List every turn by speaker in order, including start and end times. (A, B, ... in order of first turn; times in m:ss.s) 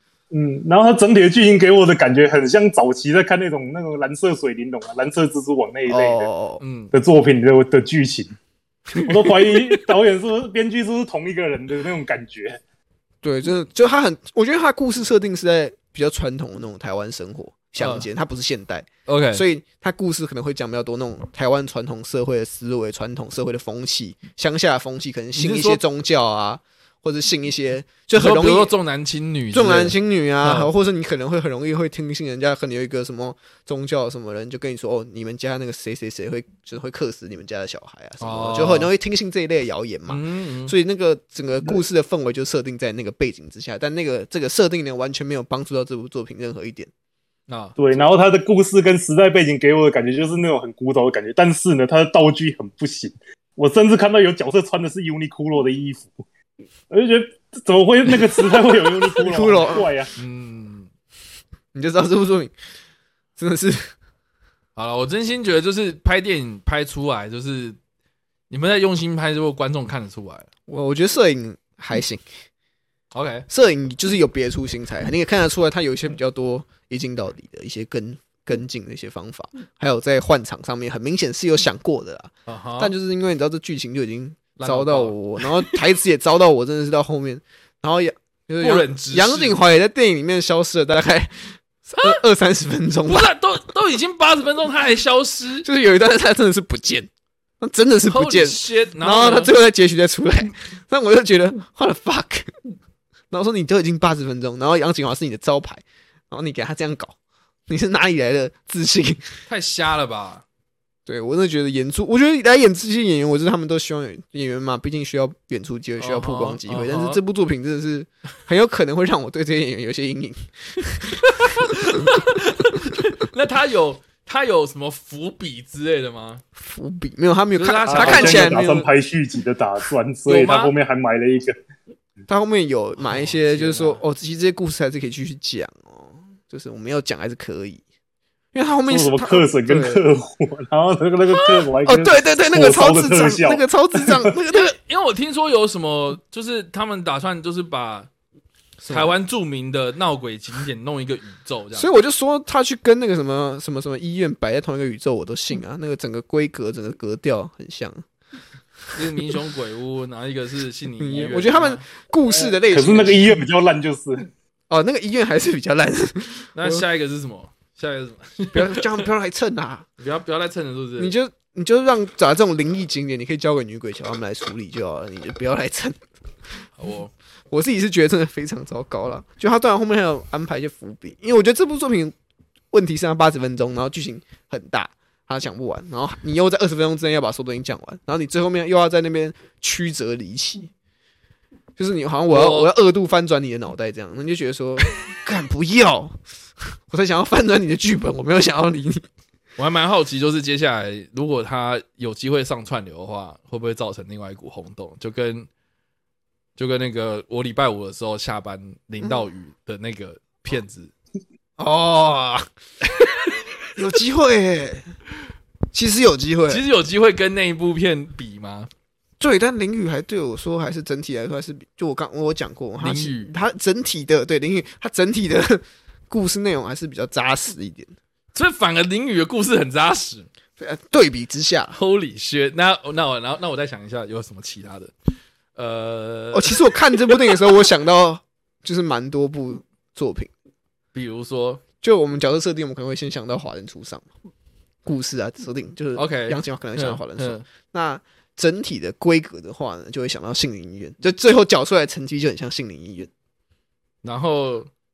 0:00.3-0:06.3 A
0:05.9-0:06.6 B
0:06.6-0:06.9 C
0:06.9-0:08.3 A
0:09.0-0:12.6 A
0:13.2-0:28.7 B
0:17.8-0:18.0 C
0:19.1-0:19.4 C
0:25.4-0:25.8 C
0:28.1-0:30.7 C
0:29.5-0:46.9 B
0:38.2-0:38.9 C
0:40.1-0:40.7 C
0:47.5-0:47.8 C
0:47.8-0:56.2 A
0:56.9-1:00.1 A
0:59.2-0:59.9 B
1:00.2-1:00.9 C
1:01.7-1:02.5 B
1:03.4-1:03.9 B
1:04.8-1:07.8 C
1:08.5-1:10.5 C
1:10.7-1:12.2 B
1:13.1-1:13.4 C
1:13.5-1:33.3 B
1:22.5-1:22.9 C
1:24.6-1:25.8 C
1:28.6-1:29.6 C
1:33.0-1:35.6 C
1:35.6-1:37.1 B
1:37.6-1:42.5 B
1:38.1-1:39.5 C
1:43.3-1:47.2 B
1:47.7-1:49.3 B
1:49.5-1:50.4 C
1:51.0-2:02.1 B
1:56.0-1:57.2 C
2:01.2-2:06.4 C
2:06.6-2:08.9 B
2:07.6-2:08.6 C
2:07.9-2:11.5 A
2:10.3-2:10.7 C
2:12.3-2:17.8 B
2:13.0-2:14.0 C
2:18.5-2:20.0 B
2:18.9-2:24.3 A
2:21.8-2:24.7 B
2:24.5-2:28.1 C
2:28.8-2:29.1 B
2:28.9-2:31.9 C
2:31.7-2:38.0 B
2:38.9-2:41.8 C
2:41.0-2:43.4 B
2:42.4-2:44.3 A
2:44.7-2:46.8 B
2:46.6-2:49.0 C
2:48.5-2:49.8 B
2:50.0-2:51.1 C
2:51.0-2:56.0 B
2:56.8-2:57.1 C
2:57.5-3:02.1 B
3:02.7-3:10.7 B
3:11.8-3:16.2 B
3:12.3-3:12.7 C
3:16.7-3:19.1 B
3:19.6-3:25.5 C
3:26.6-3:30.9 C
3:31.6-3:32.5 B
3:33.7-3:34.9 B
3:35.7-3:36.6 B
3:36.5-3:38.7 C
3:39.2-3:47.9 B
3:42.8-3:43.3 C
3:48.3-3:50.3 C
3:50.6-3:51.8 B
3:51.7-3:54.9 C
3:55.5-3:57.3 C
3:56.3-4:00.3 B
4:00.9-4:01.6 C
4:01.8-4:04.1 B
4:04.8-4:13.1 B
4:06.0-4:07.4 C
4:14.0-4:14.7 C